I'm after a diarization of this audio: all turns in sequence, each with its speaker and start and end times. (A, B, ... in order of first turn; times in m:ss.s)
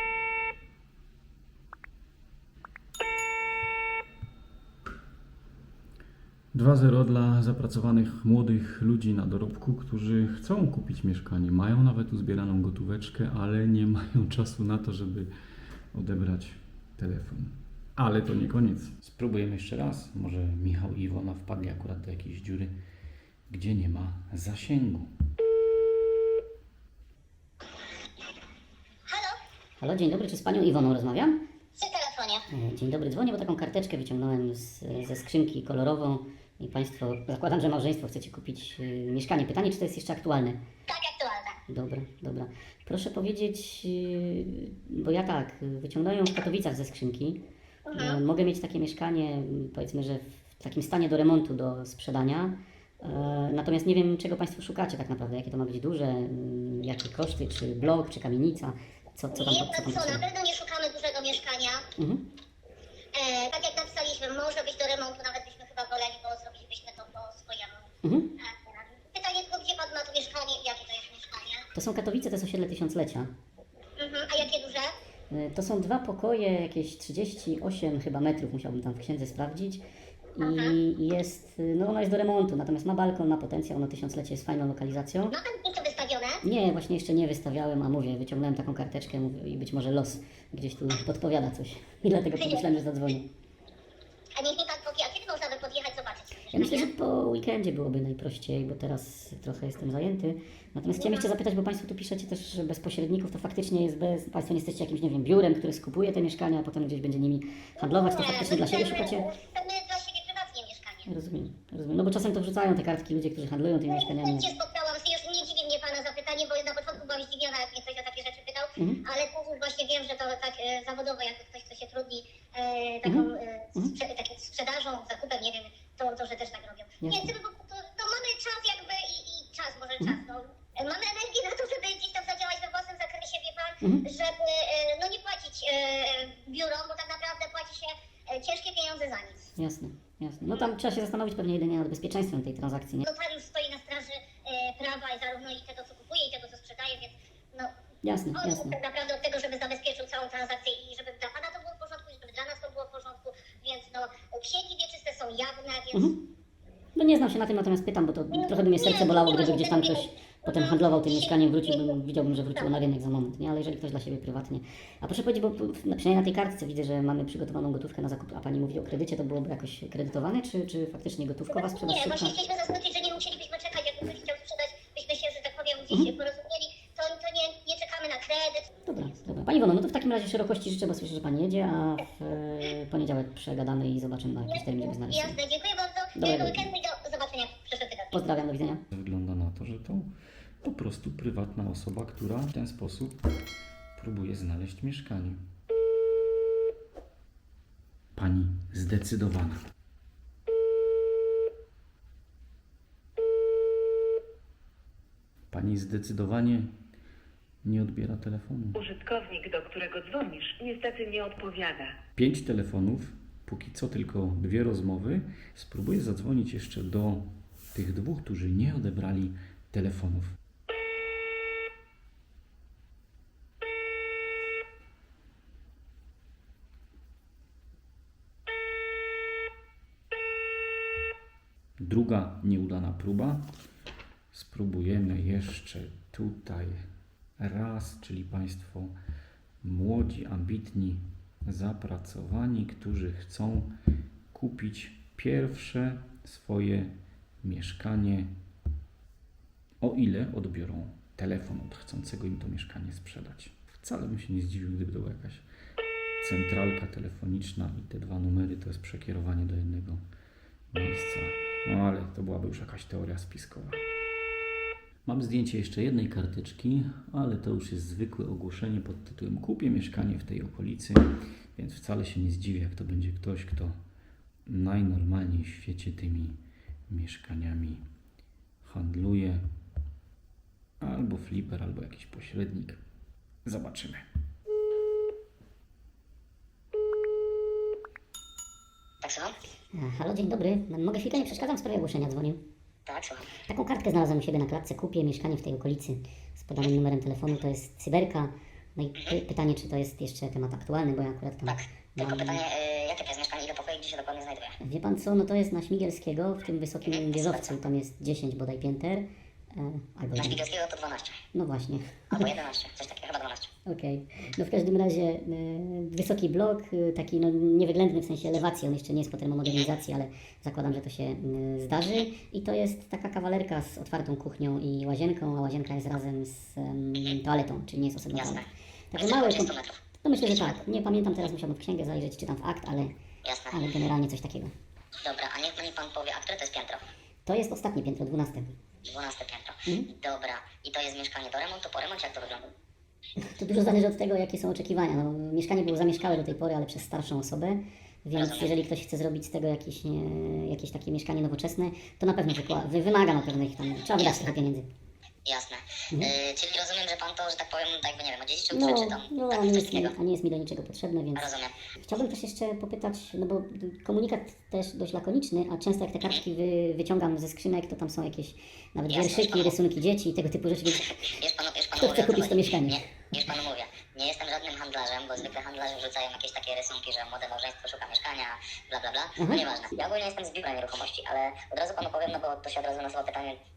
0:06.5-0:15.3 A
0:15.9-0:22.7 A
0:23.5-0:25.1 A
0:29.1-0:29.4 B
0:29.8-0:31.4 C
0:31.8-0:32.4 B
0:32.5-0:40.6 C
0:40.9-0:41.6 B
0:41.7-0:47.4 C
0:47.8-0:48.2 B
0:47.9-1:00.2 C
0:59.3-1:01.8 B
1:02.0-1:02.2 C
1:03.1-1:07.9 B
1:08.0-1:08.3 C
1:08.4-1:11.7 B
1:11.8-1:13.3 C
1:14.0-1:14.9 B
1:15.3-1:19.8 C
1:20.4-1:25.4 C
1:20.4-1:20.8 B
1:25.3-1:26.4 B
1:26.4-1:33.2 C
1:32.4-1:32.6 B
1:34.4-1:36.9 B
1:36.5-1:49.3 C
1:40.9-1:41.3 B
1:47.8-1:51.1 B
1:51.1-1:54.5 C
1:53.9-2:19.5 B
2:03.0-2:03.9 C
2:07.0-2:07.3 C
2:19.6-2:23.1 C
2:23.0-2:27.7 B
2:28.0-2:28.8 C
2:28.4-2:36.1 B
2:35.9-2:36.2 C
2:37.0-2:52.4 C
2:38.3-2:42.0 B
2:51.5-2:58.7 B
2:58.8-3:05.4 C
3:04.4-3:08.1 B
3:06.2-3:06.7 C
3:08.1-3:08.8 C
3:08.9-3:10.1 A
3:10.6-3:13.2 A
3:14.0-3:15.4 A
3:18.2-3:19.6 A
3:25.5-3:26.7 A
3:27.6-3:28.8 A
3:28.8-3:32.0 D
3:32.2-3:40.4 A
3:51.8-3:53.4 A
3:54.3-3:56.8 A
3:57.4-3:58.9 A
3:59.6-4:03.7 A
4:04.3-4:08.3 A
4:09.8-4:15.4 A
4:16.2-4:20.0 A
4:20.7-4:23.8 A
4:25.0-4:33.8 A
4:34.4-4:37.8 A
4:38.6-4:39.4 A
4:40.8-4:42.8 A
4:43.4-4:44.0 A
4:49.0-4:49.4 E
4:49.7-4:52.4 C
4:52.8-4:53.4 E
4:53.5-5:02.4 C
5:01.4-5:04.6 E
5:04.6-5:10.4 C
5:06.8-5:07.6 E
5:10.2-5:11.2 E
5:11.3-5:12.3 C
5:12.1-5:13.5 E
5:13.6-5:29.5 C
5:28.1-5:30.5 E
5:30.0-5:32.9 C
5:33.2-5:33.6 E
5:33.5-5:34.5 C
5:35.0-5:36.8 E
5:37.2-5:38.6 C
5:38.8-5:42.5 E
5:43.2-5:54.7 C
5:48.2-5:48.5 E
5:54.0-5:54.3 E
5:55.2-5:59.9 E
5:58.5-6:01.3 C
6:01.2-6:01.5 E
6:01.8-6:11.0 C
6:08.9-6:09.5 E
6:11.1-6:23.4 E
6:11.8-6:12.9 C
6:19.2-6:19.4 C